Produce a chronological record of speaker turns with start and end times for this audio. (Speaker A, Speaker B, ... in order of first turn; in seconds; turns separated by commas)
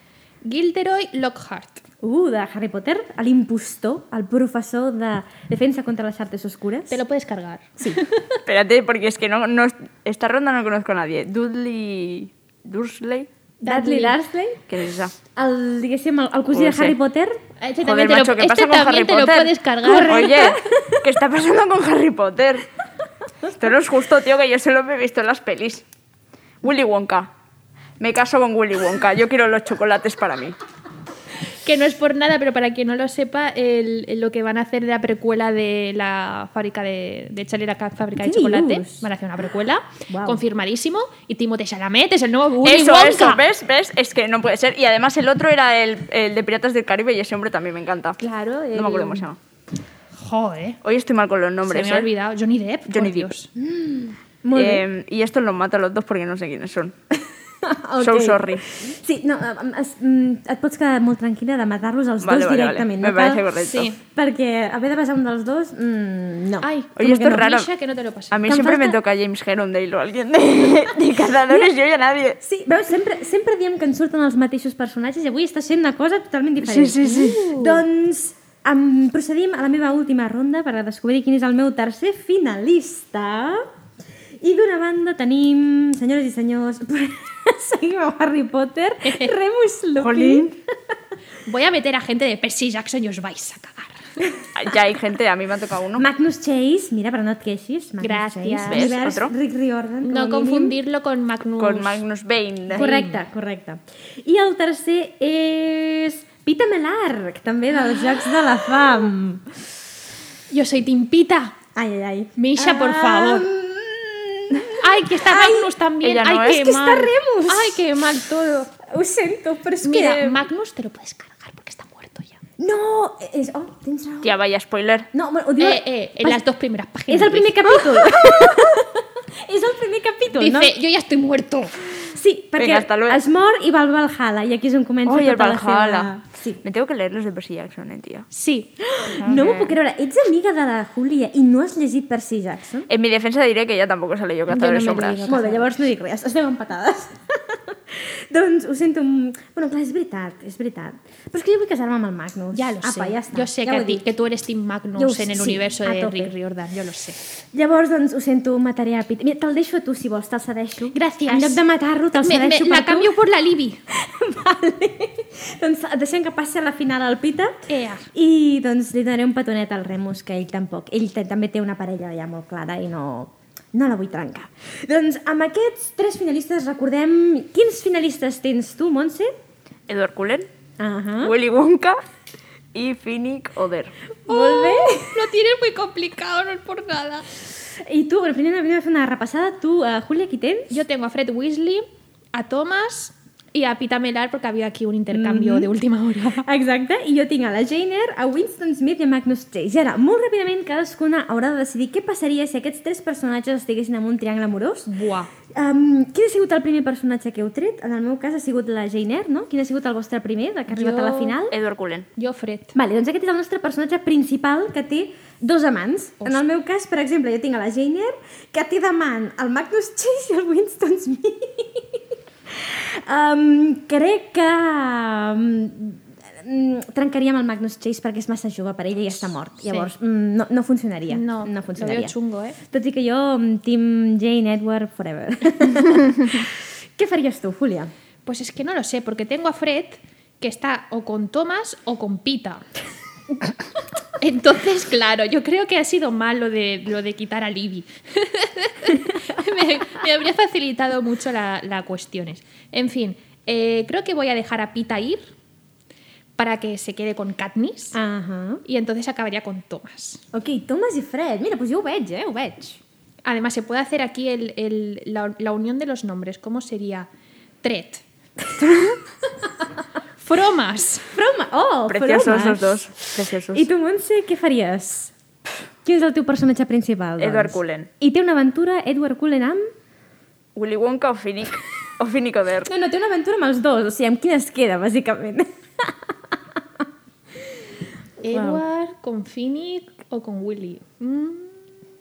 Speaker A: 0.4-1.8, Speaker B: 2.0-7.0, Speaker A: 6.9-8.3, Speaker C: 8.5-13.3, Speaker A: 13.6-14.2, Speaker B: 13.6-14.7, Speaker C: 14.7-15.1, Speaker B: 15.3-17.4, Speaker C: 16.5-17.0, Speaker A: 17.6-20.4, Speaker C: 17.8-22.6, Speaker B: 19.8-21.0, Speaker C: 23.5-25.9, Speaker C: 26.6-27.3, Speaker C: 28.0-30.6, Speaker A: 31.6-43.4, Speaker B: 38.2-39.0, Speaker B: 40.1-40.4, Speaker C: 42.6-48.2, Speaker A: 48.2-49.2, Speaker C: 48.7-49.4, Speaker A: 50.2-50.8, Speaker C: 50.8-52.1, Speaker A: 51.6-53.5, Speaker C: 52.9-53.3, Speaker B: 53.5-54.8, Speaker C: 54.5-57.0, Speaker B: 57.6-63.5, Speaker C: 58.0-58.7, Speaker C: 62.2-63.9, Speaker A: 63.6-64.0, Speaker B: 64.0-67.5, Speaker A: 66.6-68.6, Speaker C: 67.0-67.7, Speaker C: 68.3-72.4, Speaker B: 68.5-69.0, Speaker B: 72.4-83.7, Speaker C: 76.6-77.6, Speaker A: 77.3-77.7, Speaker B: 84.4-90.5, Speaker A: 89.0-89.3, Speaker C: 90.0-90.5, Speaker A: 91.5-94.2, Speaker C: 94.5-96.0, Speaker B: 96.0-100.8, Speaker A: 98.0-99.0, Speaker C: 98.7-99.3, Speaker A: 100.0-102.0, Speaker C: 101.6-102.9, Speaker B: 102.7-109.6, Speaker A: 102.7-103.2, Speaker A: 110.5-111.6, Speaker B: 111.8-115.8, Speaker A: 112.4-113.5, Speaker A: 114.8-118.7, Speaker C: 116.0-116.6, Speaker B: 116.5-117.9, Speaker B: 118.8-120.4, Speaker A: 119.8-122.4, Speaker B: 122.6-124.3, Speaker C: 124.2-125.1, Speaker B: 125.1-126.4, Speaker A: 125.6-128.1, Speaker B: 127.1-130.8, Speaker A: 130.3-131.8, Speaker B: 132.1-136.6, Speaker C: 132.6-133.2, Speaker C: 135.1-138.3, Speaker A: 138.3-138.7, Speaker B: 138.8-142.9, Speaker C: 139.2-139.8, Speaker C: 142.9-145.3, Speaker A: 144.5-145.7, Speaker B: 145.2-154.1, Speaker A: 152.5-157.2, Speaker B: 155.0-156.3, Speaker B: 157.5-163.2, Speaker A: 160.9-161.6, Speaker A: 162.2-163.8, Speaker B: 163.9-167.5, Speaker A: 167.7-168.1, Speaker B: 168.1-179.3, Speaker C: 179.9-180.5, Speaker B: 180.8-181.3, Speaker C: 181.2-182.0, Speaker C: 182.7-183.9, Speaker B: 184.3-185.3, Speaker A: 184.3-187.2, Speaker B: 187.8-190.8, Speaker A: 190.7-196.4, Speaker B: 195.1-195.7, Speaker B: 196.4-204.9, Speaker A: 204.9-205.3, Speaker B: 205.5-211.6, Speaker A: 210.7-211.4, Speaker C: 211.5-212.1, Speaker A: 212.2-212.8, Speaker B: 212.8-232.2, Speaker A: 229.6-229.9, Speaker A: 231.1-232.6, Speaker B: 232.7-237.9, Speaker A: 238.2-242.7, Speaker A: 244.2-255.3, Speaker A: 256.4-258.0, Speaker B: 257.9-258.6, Speaker A: 258.6-260.2, Speaker B: 260.3-262.8, Speaker A: 263.2-267.1, Speaker A: 267.6-268.0, Speaker B: 268.5-269.0, Speaker A: 270.2-271.1, Speaker B: 271.1-275.1, Speaker C: 271.9-273.7, Speaker B: 275.8-279.7, Speaker C: 277.2-277.9, Speaker C: 280.5-282.7, Speaker B: 282.7-286.3, Speaker A: 288.2-291.6, Speaker B: 288.3-288.6